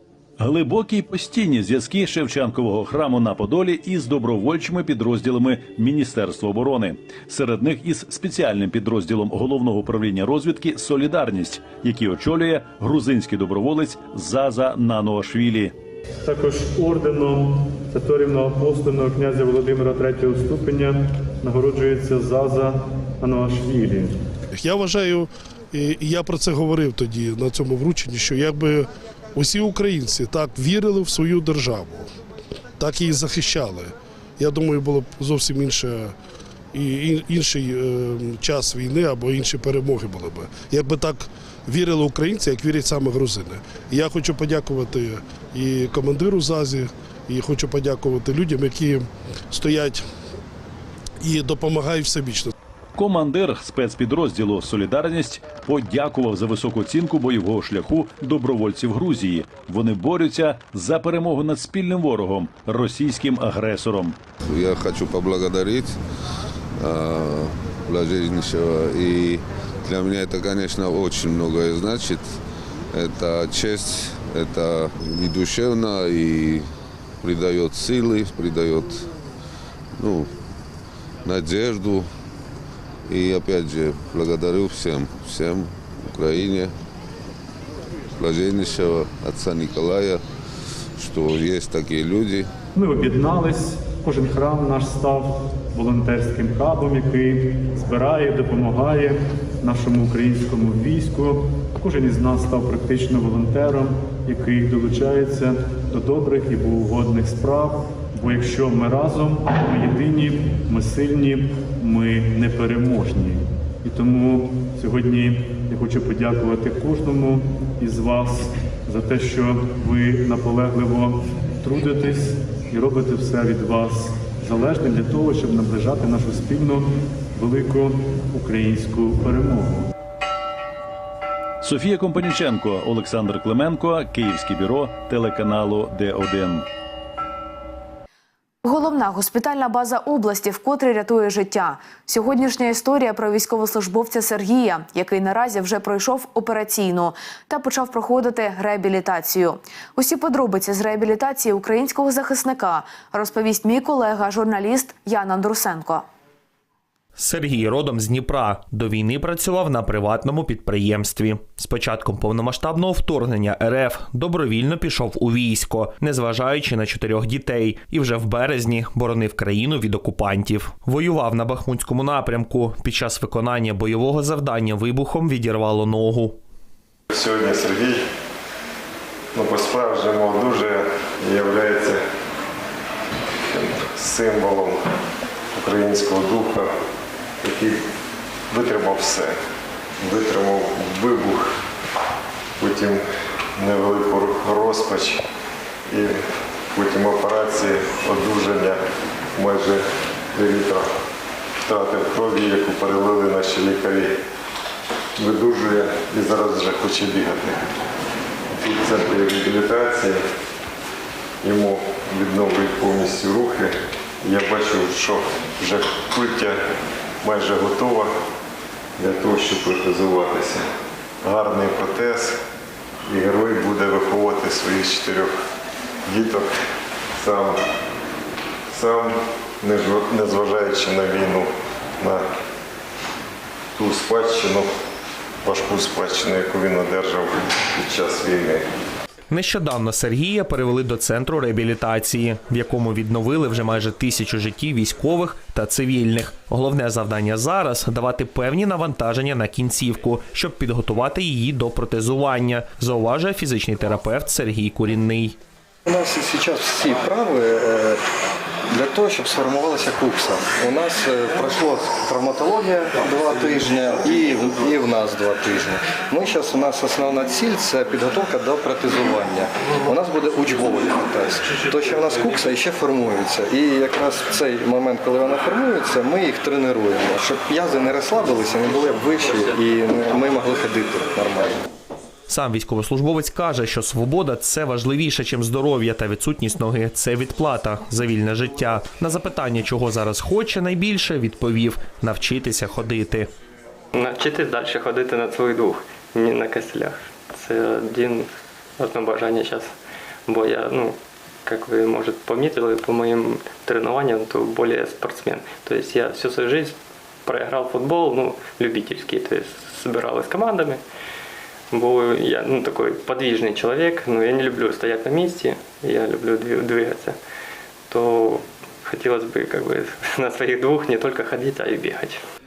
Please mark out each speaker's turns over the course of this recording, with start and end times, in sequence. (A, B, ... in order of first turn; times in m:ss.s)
0:00.4-0:15.7 A
0:16.2-0:24.2 B
0:24.5-0:32.1 C
0:32.8-0:36.1 C
0:36.7-0:50.0 C
0:51.2-0:52.5 C
0:53.0-1:04.2 A
1:04.4-1:06.0 D
1:06.8-1:12.4 D
1:12.9-1:16.7 D
1:17.2-1:19.1 D
1:20.0-1:20.3 D
1:21.2-1:22.1 D
1:23.1-1:26.7 D
1:28.2-1:30.2 D
1:31.0-1:32.5 D
1:32.7-2:09.9 B
2:11.6-2:16.6 A
2:18.6-2:36.0 E
2:37.2-2:56.4 F
2:57.1-2:58.0 G
2:59.3-3:02.0 G
3:03.5-3:04.8 G
3:05.5-3:06.7 G
3:07.4-3:07.8 G
3:08.5-3:09.4 G
3:10.0-3:11.5 G
3:12.6-3:13.0 G
3:13.5-3:15.2 G
3:15.9-3:16.2 G
3:16.7-3:18.8 G
3:19.3-3:20.9 G
3:21.6-3:24.1 G
3:25.2-3:27.6 G
3:28.5-3:30.2 G
3:31.4-3:36.6 G
3:37.2-3:38.1 G
3:39.0-3:40.6 G
3:41.2-3:42.4 G
3:43.1-3:45.3 G
3:46.0-3:46.5 G
3:47.2-3:47.6 G
3:48.7-3:52.2 G
3:53.8-3:54.7 G
3:55.4-3:58.6 G
3:59.3-4:15.3 F
4:15.9-4:18.0 H
4:18.7-4:41.6 H
4:42.3-4:53.3 F
4:53.9-4:59.7 I
5:00.3-5:10.8 I
5:11.7-5:17.2 I
5:17.9-5:22.2 I